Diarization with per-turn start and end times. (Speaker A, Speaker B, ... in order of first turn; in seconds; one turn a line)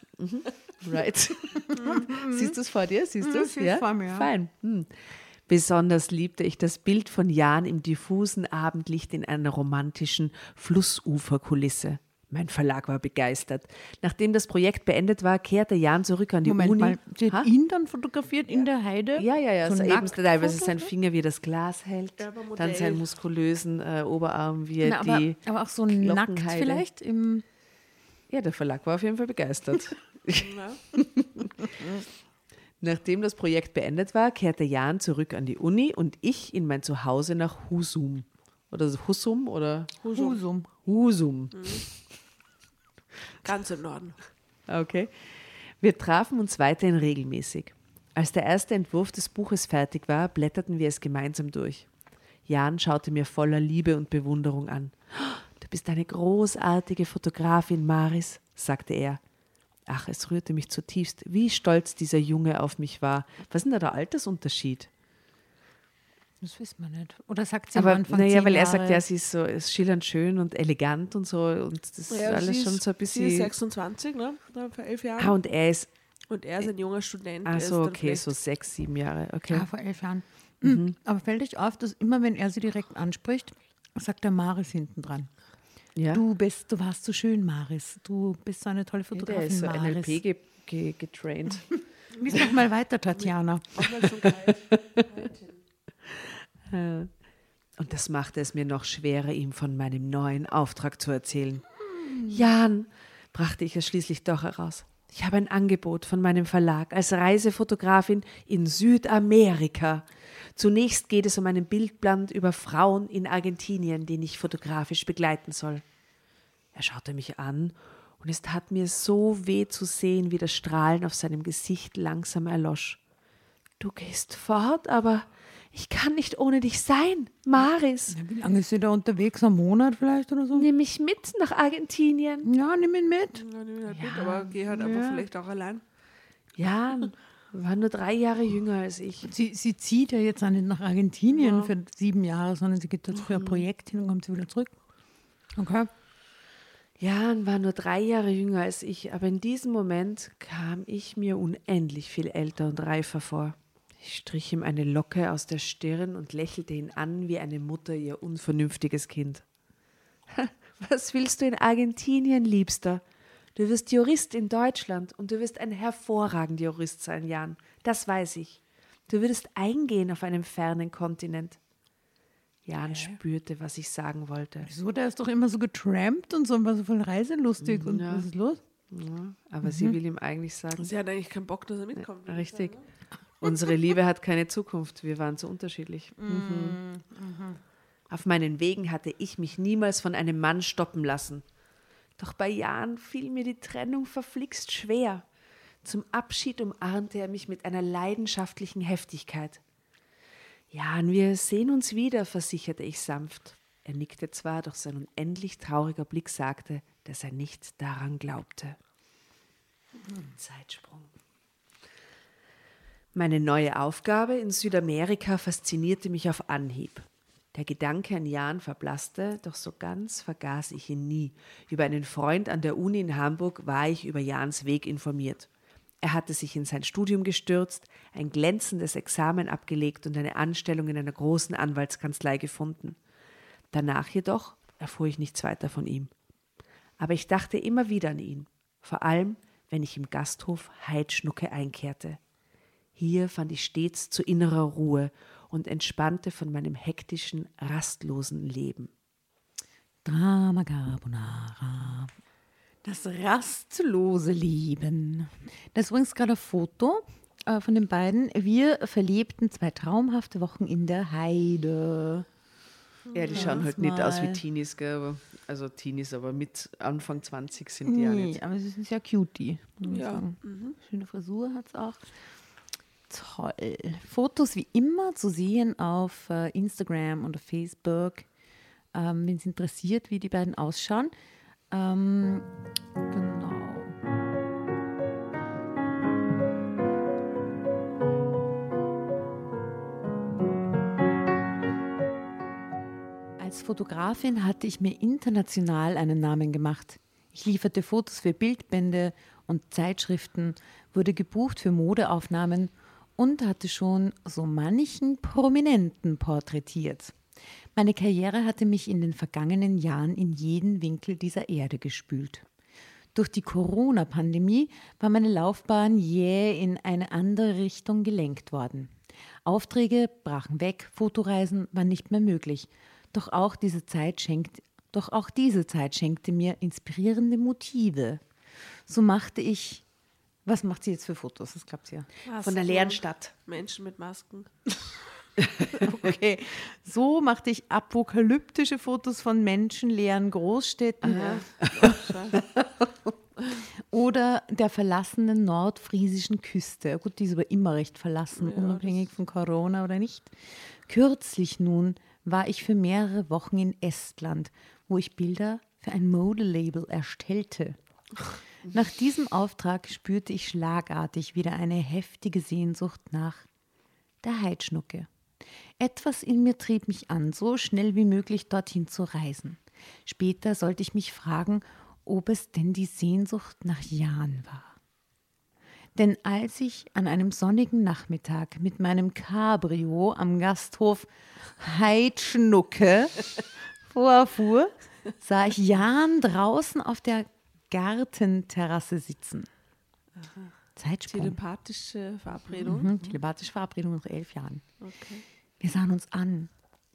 Speaker A: 0.2-17.5
Speaker B: 1.7-2.6
Speaker B: 3.2-4.3
Speaker B: 16.4-20.9
Speaker A: 19.2-26.8
Speaker C: 22.2-23.1
Speaker B: 24.8-27.4
Speaker A: 28.3-31.7
Speaker C: 30.4-30.8
Speaker A: 32.8-40.0
Speaker C: 40.0-40.4
Speaker B: 40.1-40.7
Speaker A: 40.8-41.9
Speaker C: 41.5-41.8
Speaker C: 43.4-44.2
Speaker A: 44.7-51.9
Speaker A: 52.5-59.2
Speaker A: 59.9-64.9
Speaker B: 66.4-69.0
Speaker A: 67.8-73.5
Speaker C: 72.1-75.3
Speaker A: 75.2-75.9
Speaker C: 76.3-78.3
Speaker A: 77.5-79.7
Speaker B: 79.5-85.3
Speaker A: 80.6-81.0
Speaker A: 86.0-86.2
Speaker B: 86.1-90.2
Speaker A: 89.1-91.8
Speaker B: 91.7-94.0
Speaker C: 93.2-95.6
Speaker A: 94.7-95.0
Speaker A: 96.7-97.1
Speaker A: 97.8-115.8
Speaker B: 102.0-102.4
Speaker A: 116.7-123.0
Speaker A: 123.8-128.2
Speaker B: 128.1-130.7
Speaker A: 130.6-132.5
Speaker B: 132.4-133.4
Speaker C: 133.3-135.8
Speaker A: 133.9-135.3
Speaker A: 136.6-139.3
Speaker B: 139.2-144.7
Speaker C: 141.3-141.7
Speaker A: 143.3-143.6
Speaker B: 145.6-145.9
Speaker A: 147.0-159.4
Speaker A: 160.3-163.0
Speaker A: 163.6-171.6
Speaker A: 172.7-174.7
Speaker C: 172.8-173.2
Speaker B: 174.6-178.6
Speaker A: 177.6-178.3
Speaker A: 178.9-180.9
Speaker B: 179.6-179.9
Speaker C: 180.8-182.9
Speaker A: 182.0-182.8
Speaker A: 183.4-186.8
Speaker B: 186.2-187.6
Speaker A: 188.1-191.4
Speaker A: 192.2-195.2
Speaker A: 195.8-199.6
Speaker A: 200.7-208.8
Speaker A: 210.2-211.1
Speaker A: 213.2-225.5
Speaker A: 226.0-233.0
Speaker A: 233.7-236.1
Speaker A: 237.0-242.2
Speaker A: 243.0-248.9
Speaker B: 250.1-252.1
Speaker B: 252.8-262.3
Speaker C: 263.1-263.6
Speaker A: 263.1-268.4
Speaker B: 263.3-264.4
Speaker B: 267.9-272.1
Speaker C: 269.9-270.8
Speaker B: 273.1-278.3
Speaker B: 278.9-281.1
Speaker B: 281.7-282.5
Speaker B: 283.1-284.0
Speaker B: 293.4-307.1
Speaker B: 307.8-312.5
Speaker B: 313.1-318.9
Speaker B: 319.4-328.2
Speaker B: 328.9-329.8
Speaker B: 330.4-332.1
Speaker C: 332.3-334.8
Speaker A: 332.4-333.3
Speaker B: 335.8-342.0
Speaker A: 341.0-341.9
Speaker C: 341.2-342.4
Speaker A: 342.4-342.6
Speaker B: 343.9-357.8
Speaker C: 348.4-349.0
Speaker B: 358.7-363.5
Speaker B: 364.2-365.1
Speaker B: 365.8-374.8
Speaker B: 375.9-383.3
Speaker B: 383.9-389.5
Speaker C: 390.2-390.4
Speaker B: 390.8-391.4
Speaker C: 391.1-393.0
Speaker B: 392.6-394.6
Speaker C: 394.8-395.2
Speaker B: 395.6-396.5